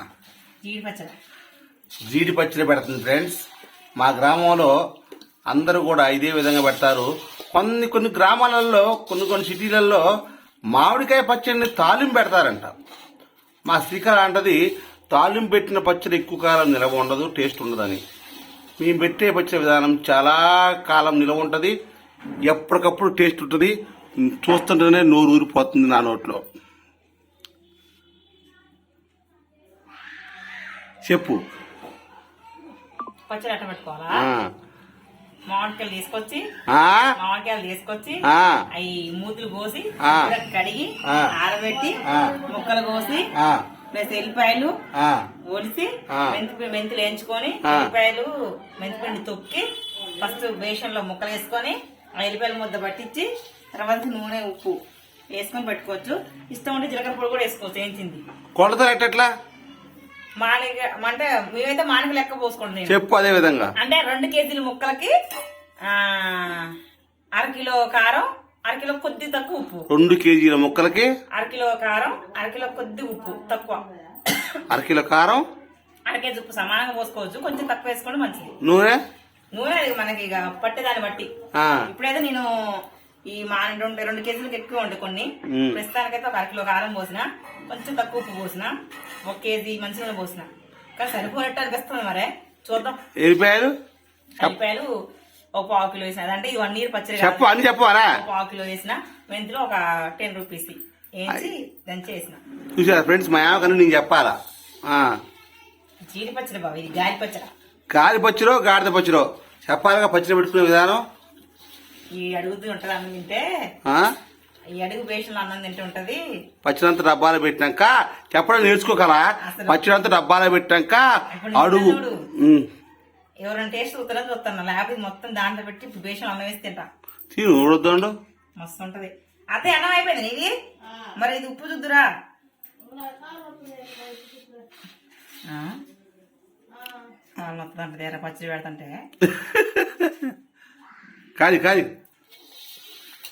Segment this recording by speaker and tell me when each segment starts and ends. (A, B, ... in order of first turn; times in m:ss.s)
0:00.6-0:01.1 A
0:02.1-0:03.4 B
0:04.0-0:04.7 B
0:05.5-0:10.0 B
0:10.7-0:12.7 B
0:13.6-0:14.6 B
0:15.1-0:18.0 B
0:18.8-0:21.8 B
0:22.5-0:26.4 B
0:31.0-0:31.4 B
0:33.3-0:34.2 A
0:34.1-0:34.5 B
0:35.5-0:36.4 A
0:36.7-0:37.1 B
0:37.2-0:43.3 A
0:38.3-0:38.6 B
0:40.0-0:40.3 B
0:41.0-0:41.3 B
0:42.0-0:42.4 B
0:43.3-0:43.6 B
0:43.9-0:44.8 A
0:44.9-0:45.2 B
0:45.5-0:49.6 A
0:46.1-0:46.4 B
0:47.6-0:47.9 B
0:50.2-0:54.8 A
0:55.3-0:58.2 A
0:58.6-0:59.3 B
1:00.4-1:03.0 A
1:02.9-1:03.7 B
1:03.8-1:05.1 A
1:05.8-1:06.7 A
1:07.4-1:09.8 A
1:09.9-1:11.1 B
1:11.3-1:14.6 A
1:14.7-1:15.4 B
1:16.1-1:18.5 A
1:18.6-1:19.0 B
1:19.5-1:21.3 A
1:21.6-1:21.9 B
1:21.9-1:22.5 A
1:23.3-1:28.7 A
1:25.5-1:25.8 B
1:29.2-1:33.0 A
1:33.2-1:33.7 B
1:34.4-1:34.9 A
1:35.6-1:37.5 A
1:37.2-1:38.1 B
1:38.1-1:42.4 A
1:42.7-1:45.2 B
1:46.1-1:47.5 A
1:47.9-1:51.0 B
1:52.2-1:53.4 A
1:54.8-1:56.2 A
1:56.6-2:02.7 B
1:59.4-2:00.1 A
2:01.3-2:02.2 A
2:03.4-2:06.9 A
2:07.3-2:08.1 B
2:08.6-2:10.5 A
2:11.2-2:12.1 A
2:15.5-2:15.8 A
2:17.4-2:19.0 A
2:19.2-2:20.1 B
2:21.4-2:21.9 B